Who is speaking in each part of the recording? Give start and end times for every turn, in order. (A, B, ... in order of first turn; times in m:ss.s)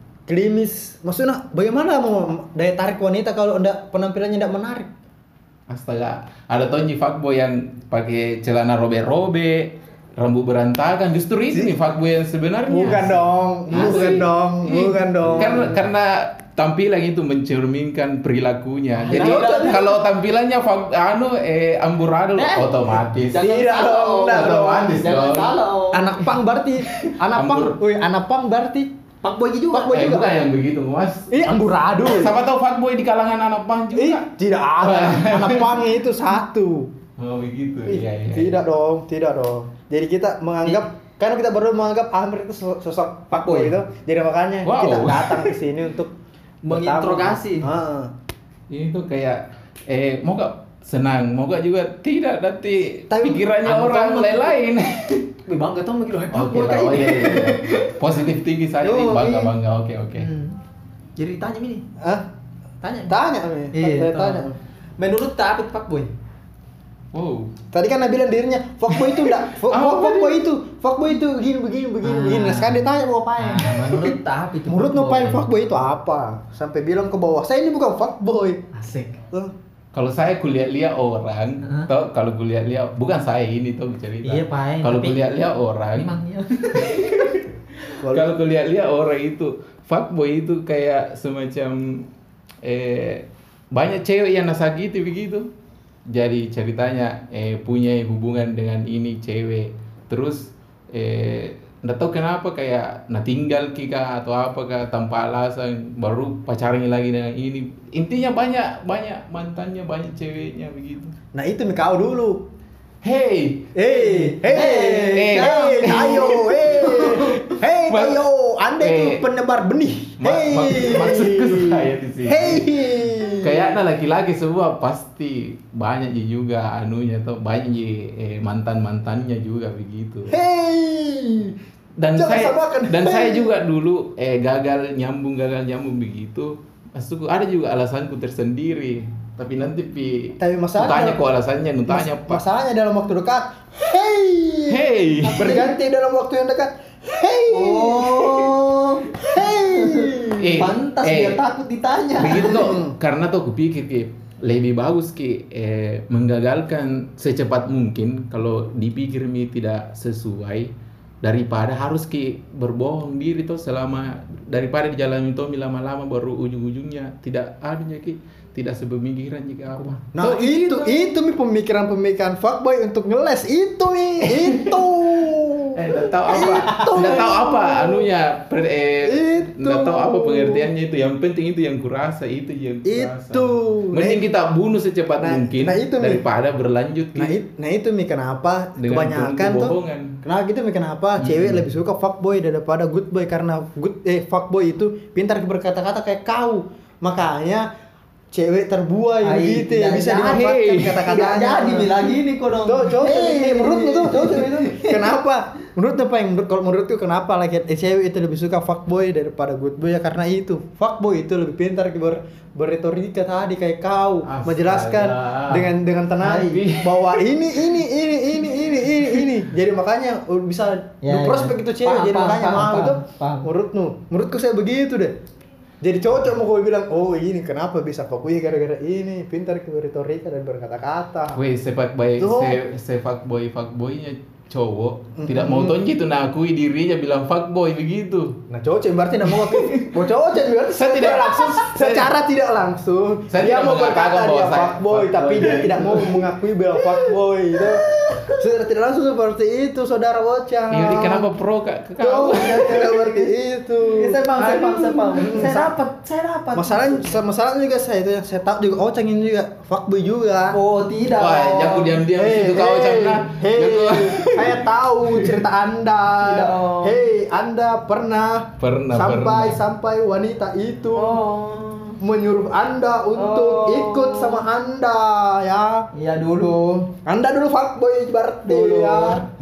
0:00.3-0:04.9 A
0:05.7-0:25.6 B
0:12.7-0:15.8 A
0:19.0-0:20.0 C
0:19.1-0:19.9 A
0:22.4-0:26.3 C
0:23.4-0:25.1 A
0:25.9-0:28.9 A
0:26.9-0:27.8 B
0:29.2-0:30.0 C
0:29.7-0:30.3 A
0:29.9-0:34.3 B
0:31.3-0:32.4 A
0:33.9-0:36.9 A
0:34.8-0:35.9 B
0:37.2-0:38.6 B
0:37.9-0:46.1 A
0:43.3-0:43.8 C
0:44.6-0:45.6 B
0:46.6-0:47.7 C
0:46.7-0:48.1 A
0:48.7-0:55.3 B
0:53.1-0:53.5 A
0:53.6-0:54.6 C
0:55.5-0:58.0 C
0:56.3-1:00.3 B
0:58.8-0:59.5 C
1:00.2-1:00.6 C
1:01.2-1:01.9 C
1:02.0-1:02.2 A
1:02.8-1:03.2 C
1:03.1-1:04.6 A
1:03.7-1:04.5 C
1:05.0-1:06.1 C
1:07.1-1:07.5 B
1:07.7-1:14.2 A
1:08.9-1:10.5 B
1:12.0-1:12.8 C
1:13.4-1:15.5 C
1:14.7-1:18.6 A
1:18.7-1:19.2 C
1:19.9-1:26.1 B
1:21.6-1:21.9 C
1:24.2-1:25.2 C
1:26.0-1:27.4 C
1:26.8-1:27.4 B
1:28.0-1:28.4 A
1:28.1-1:32.1 B
1:32.6-1:35.5 B
1:36.1-1:51.2 B
1:51.3-1:52.4 A
1:53.0-1:53.7 B
1:53.8-2:03.7 A
1:53.9-1:56.2 C
1:54.6-1:57.3 B
1:57.0-1:57.4 C
1:57.9-1:58.2 B
1:58.8-1:59.2 B
2:00.2-2:10.4 B
2:10.3-2:11.6 A
2:12.0-2:22.4 B
2:12.2-2:13.5 A
2:20.4-2:21.2 A
2:21.9-2:28.5 A
2:24.7-2:25.7 B
2:25.4-2:25.6 C
2:27.5-2:32.6 C
2:29.2-2:30.7 A
2:30.4-2:31.4 B
2:32.2-2:51.0 B
2:32.3-2:32.9 A
2:50.2-2:58.1 A
2:54.3-2:54.8 B
2:55.7-3:07.4 B
2:56.6-2:57.0 C
2:59.0-3:00.7 A
3:02.8-3:04.2 A
3:05.2-3:06.2 A
3:07.2-3:17.7 A
3:08.8-3:10.2 B
3:11.2-3:11.7 B
3:18.3-3:21.9 A
3:19.2-3:20.5 C
3:20.2-3:21.2 B
3:21.0-3:25.1 C
3:22.7-3:45.2 A
3:34.2-3:37.8 B
3:39.0-3:39.3 B
3:41.0-3:43.5 C
3:45.8-3:51.4 A
3:51.3-3:58.4 B
3:52.2-3:52.6 A
3:55.2-3:55.8 A
3:58.5-4:11.3 A
3:59.2-4:00.0 B
4:00.7-4:02.1 B
4:03.3-4:06.2 B
4:07.8-4:08.4 C
4:10.7-4:13.1 B
4:12.0-4:15.7 A
4:13.9-4:17.2 C
4:16.6-4:20.6 A
4:20.5-4:22.0 C
4:21.1-4:25.4 B
4:22.1-4:31.2 A
4:26.2-4:27.0 C
4:28.6-4:29.6 B
4:30.9-4:32.0 C
4:32.0-4:35.9 A
4:33.2-4:34.4 C
4:35.9-4:36.9 C
4:37.0-4:39.2 A
4:38.5-4:39.2 C